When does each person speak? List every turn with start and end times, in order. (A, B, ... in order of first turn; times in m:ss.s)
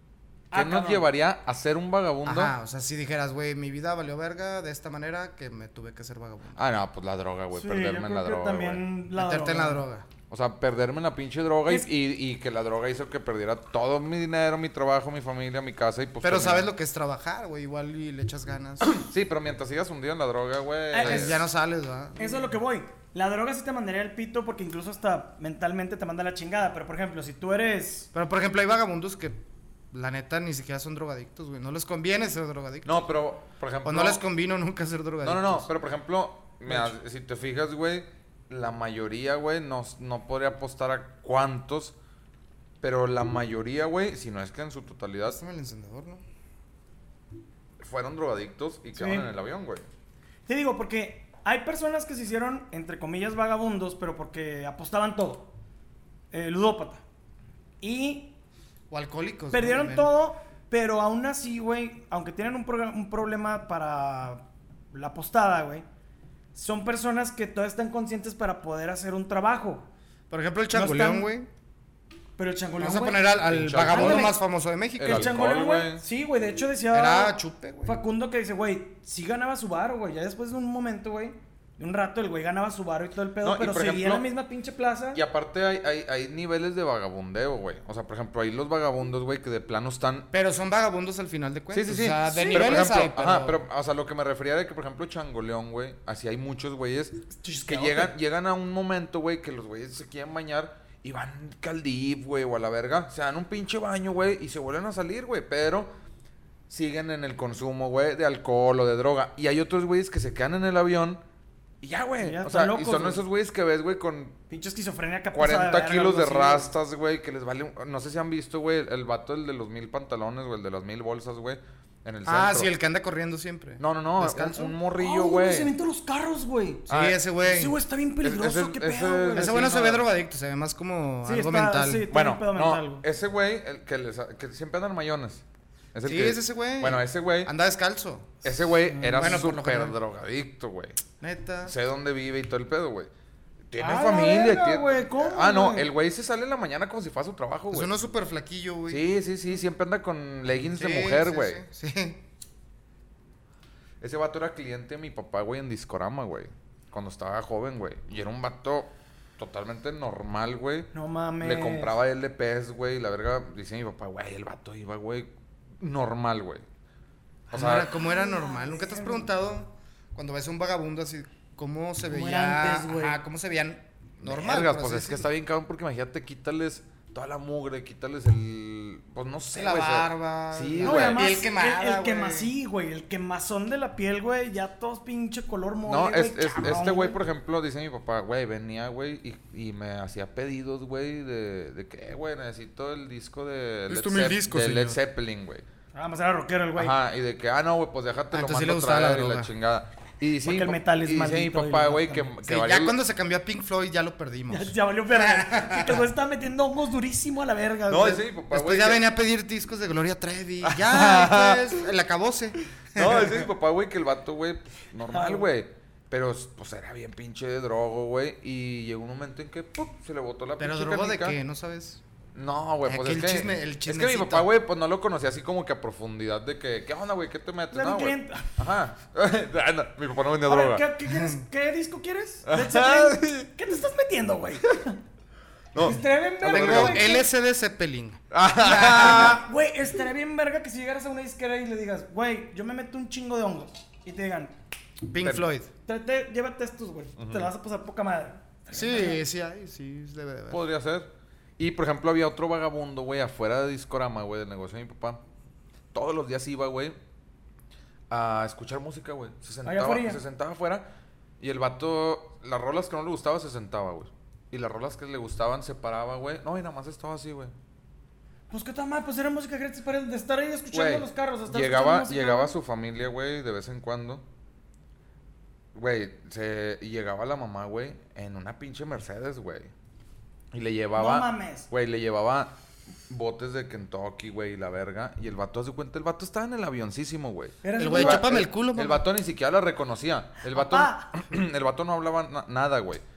0:00.5-0:01.0 A
0:00.5-0:02.5 B
0:02.2-0:06.6 C
0:06.6-0:08.8 B
0:07.5-0:09.8 A
0:09.2-0:10.1 C
0:10.3-0:16.7 B
0:16.2-0:19.0 C
0:18.9-0:21.4 B
0:20.9-0:21.3 A
0:21.0-0:22.4 C
0:22.2-0:28.1 A
0:28.1-0:29.4 C
0:29.9-0:33.1 C
0:32.8-0:34.2 B
0:33.8-0:35.7 C
0:35.2-0:41.9 B
0:42.8-0:45.4 B
0:45.3-0:46.2 C
0:47.8-0:49.9 B
0:49.0-0:49.3 A
0:50.5-0:55.5 A
0:56.3-0:57.0 A
0:57.8-0:58.4 A
0:58.9-1:00.1 C
0:59.5-1:05.8 A
1:06.5-1:09.8 A
1:10.3-1:11.5 C
1:10.7-1:11.3 A
1:12.4-1:13.2 A
1:12.8-1:15.3 C
1:13.4-1:14.3 B
1:13.9-1:14.4 A
1:15.0-1:16.0 B
1:15.1-1:25.2 A
1:16.9-1:18.0 C
1:23.4-1:24.2 B
1:25.1-1:30.3 B
1:30.3-1:33.6 C
1:31.7-1:45.9 B
1:32.2-1:32.7 A
1:37.3-1:38.1 A
1:46.7-1:51.2 B
1:51.8-1:54.4 B
1:52.2-1:53.2 A
1:54.5-1:56.7 A
1:55.3-2:02.7 B
2:02.2-2:04.8 C
2:03.8-2:05.7 B
2:04.9-2:06.9 A
2:06.9-2:07.2 B
2:06.9-2:07.8 C
2:07.4-2:09.6 A
2:08.2-2:10.0 B
2:09.3-2:12.1 C
2:11.2-2:13.0 A
2:12.1-2:15.4 B
2:15.9-2:17.5 B
2:16.0-2:18.4 C
2:18.4-2:21.0 B
2:18.9-2:19.5 A
2:19.1-2:20.0 C
2:21.2-2:21.7 C
2:21.6-2:23.1 B
2:23.7-2:27.9 B
2:23.8-2:25.9 A
2:27.7-2:29.1 C
2:28.9-2:31.6 B
2:30.5-2:32.2 C
2:34.0-2:45.3 B
2:40.9-2:42.0 A
2:45.8-2:46.6 B
2:47.5-2:47.9 B
2:47.5-2:55.3 C
2:48.0-2:49.2 A
2:52.1-2:53.2 A
2:54.2-3:01.4 B
2:59.5-3:02.5 C
3:00.8-3:07.2 A
3:05.8-3:15.6 B
3:13.9-3:15.0 C
3:15.9-3:16.9 A
3:16.8-3:22.9 B
3:18.3-3:19.5 C
3:20.4-3:22.3 A
3:22.4-3:26.0 C
3:24.5-3:28.2 A
3:27.9-3:29.0 B
3:28.5-3:33.5 C
3:30.6-3:31.8 B
3:32.9-3:41.4 B
3:35.1-3:35.5 A
3:40.6-3:42.0 C
3:42.3-3:50.8 B
3:42.8-3:44.5 C
3:47.7-3:48.5 A
3:50.4-3:55.0 A
3:51.1-3:51.4 C
3:52.5-3:53.5 B
3:55.7-3:57.1 B
3:55.8-3:57.2 A
3:56.4-3:59.4 C
3:58.3-3:59.4 B
3:58.6-4:04.5 A
4:05.0-4:05.7 C
4:05.2-4:05.5 B
4:05.8-4:09.2 A
4:07.2-4:07.5 B
4:08.7-4:10.6 C
4:10.5-4:15.2 B
4:15.9-4:17.0 B
4:18.1-4:20.9 B
4:19.6-4:20.2 A
4:21.4-4:27.5 B
4:28.5-4:32.5 A
4:30.7-4:34.2 B
4:35.7-4:39.7 B
4:40.5-4:42.5 B
4:40.9-4:41.7 A
4:43.1-4:53.0 B
4:47.6-4:48.3 A
4:47.8-4:49.0 C
4:50.5-4:51.1 A